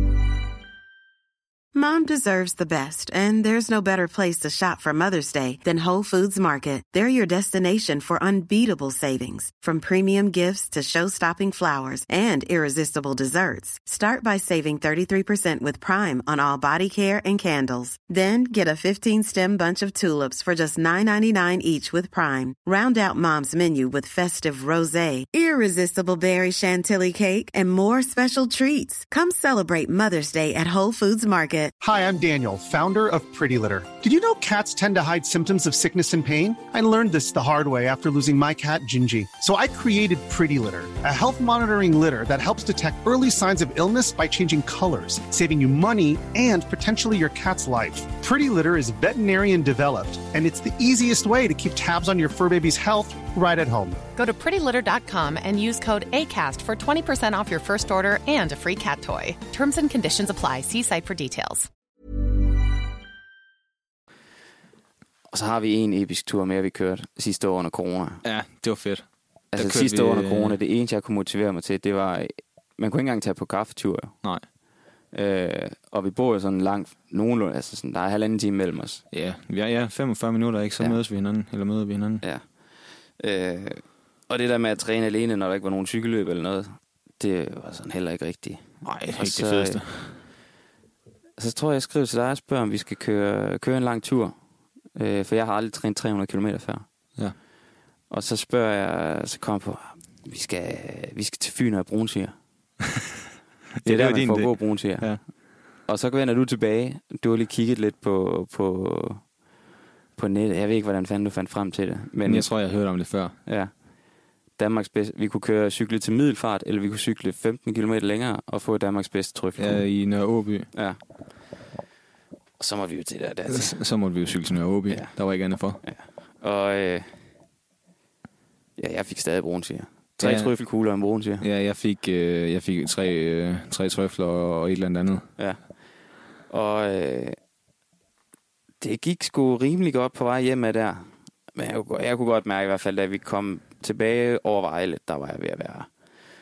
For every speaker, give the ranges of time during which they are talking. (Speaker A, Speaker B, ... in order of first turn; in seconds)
Speaker A: 1.7-31.7
Speaker B: 31.8-54.1
Speaker C: 54.1-61.7
Speaker D: 65.3-68.2, 69.5-74.1, 75.1-79.0, 83.2-88.6, 89.1-89.8, 91.4-94.3, 94.9-96.8, 98.1-102.3, 103.8-105.1, 105.9-109.2, 110.2-112.5, 114.6-119.8, 122.6-123.8, 125.8-127.1, 128.8-131.4, 136.5-137.4, 138.8-145.9
Speaker E: 68.2-70.6, 79.1-82.2, 88.8-90.2, 103.8-105.2, 112.2-113.3, 119.6-120.7, 123.5-125.8, 130.2-130.5, 131.4-135.3